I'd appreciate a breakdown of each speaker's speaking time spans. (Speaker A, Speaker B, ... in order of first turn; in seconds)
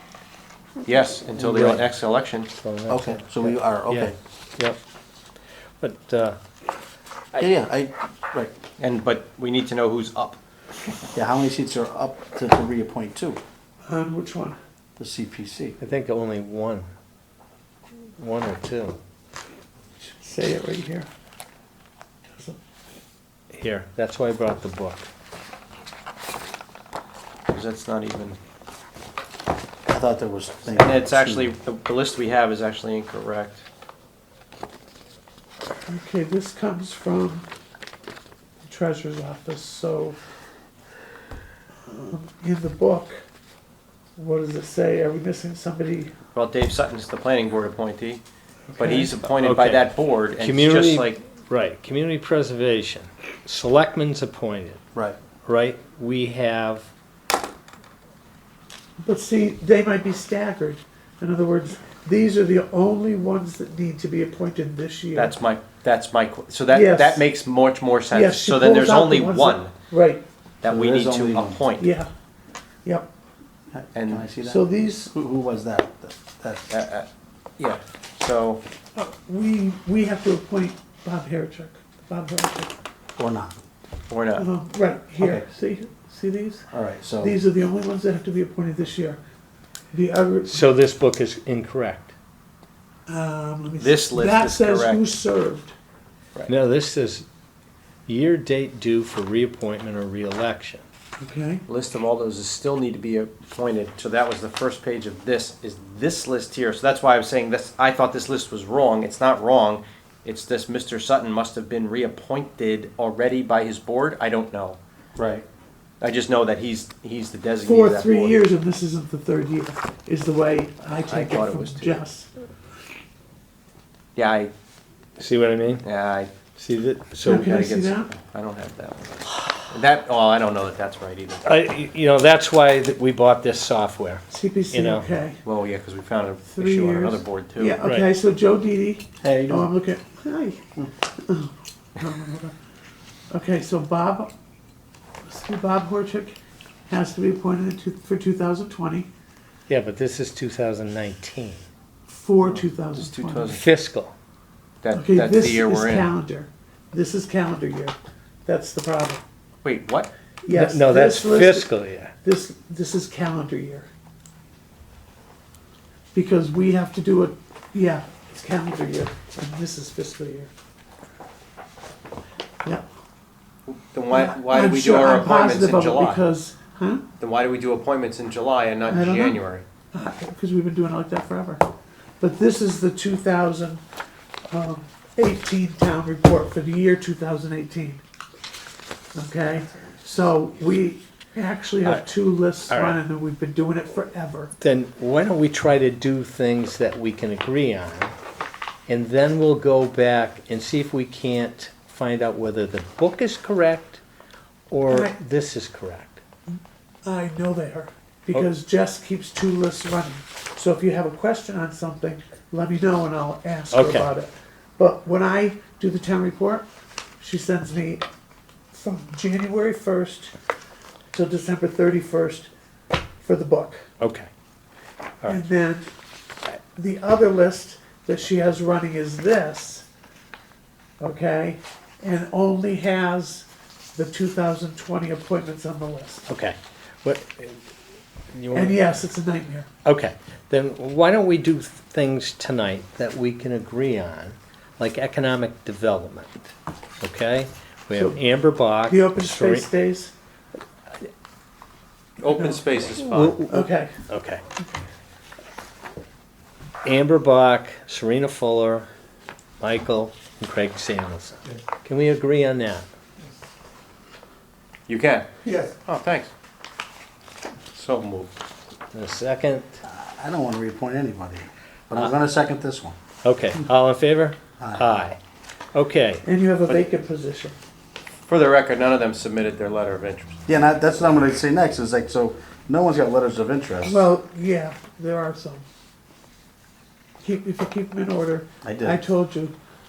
Speaker A: 0.8-2.5, 8.8-10.4, 27.5-28.4, 30.7-33.6, 46.3-48.2, 48.8-51.1, 65.1-69.7, 70.6-71.9, 74.0-74.3, 76.7-77.1, 77.6-78.6, 84.1-84.5, 93.8-95.1, 101.7-114.8, 116.0-118.4, 120.9-122.0, 124.2-124.5, 125.8-126.3, 127.3-129.1, 129.7-131.5, 135.4-137.8, 152.4-153.7, 154.8-156.1, 159.6-160.1, 173.7-176.2, 177.2-179.6, 252.2-253.4, 264.9-266.3, 267.7-268.3, 278.3-280.4
Speaker B: 1.5-1.8, 2.6-4.8, 5.8-6.4, 15.8-16.9, 18.2-19.0, 23.5-25.1, 49.3-54.8, 55.4-56.9, 90.5-92.1, 96.5-97.3, 98.1-100.8, 125.2-125.9, 126.6-127.6, 131.4-135.1, 137.8-138.1, 149.7-151.7, 153.5-154.1, 160.5-162.1, 192.7-193.0, 194.6-198.2, 198.9-204.0, 204.7-206.2, 213.7-214.1, 224.0-224.3, 236.3-237.7, 238.3-238.8, 239.8-249.7, 253.0-254.4, 256.8-258.9, 259.6-262.9, 268.9-269.8, 273.2-275.2, 275.7-276.2
Speaker C: 2.9-4.2, 7.4-8.5, 11.2-13.4, 15.0-15.8, 29.9-31.5, 70.7-71.7, 73.7-76.7, 83.2-83.5, 85.2-85.5, 86.7-87.3, 115.2-115.5, 139.2-139.7, 269.9-273.0, 274.6-274.9, 280.5-284.0, 288.6-289.0
Speaker D: 13.9-14.6, 20.0-21.1, 35.9-37.5, 38.7-40.2, 41.9-43.2, 44.2-46.1, 48.7-49.2, 59.0-65.3, 66.7-67.3, 68.1-70.2, 71.8-72.1, 74.5-75.1, 79.0-82.7, 84.4-86.6, 87.2-89.2, 89.9-90.5, 93.1-95.7, 101.2-101.6, 117.7-122.3, 127.2-128.1, 134.3-135.4, 136.5-140.6, 141.2-142.5, 143.3-144.3, 145.2-146.3, 146.9-149.1, 152.1-153.6, 154.9-159.2, 160.4-161.7, 162.2-163.9, 166.1-170.5, 174.1-177.0, 178.9-179.4, 179.9-181.6, 182.2-183.8, 184.5-188.0, 189.1-194.5, 207.0-216.7, 217.2-218.0, 218.7-220.3, 221.1-222.5, 223.2-223.9, 225.3-225.8, 226.8-229.9, 231.0-236.2, 238.5-239.7, 247.9-248.2, 248.9-250.1, 253.5-254.0, 276.2-277.6, 283.8-285.6, 287.2-289.6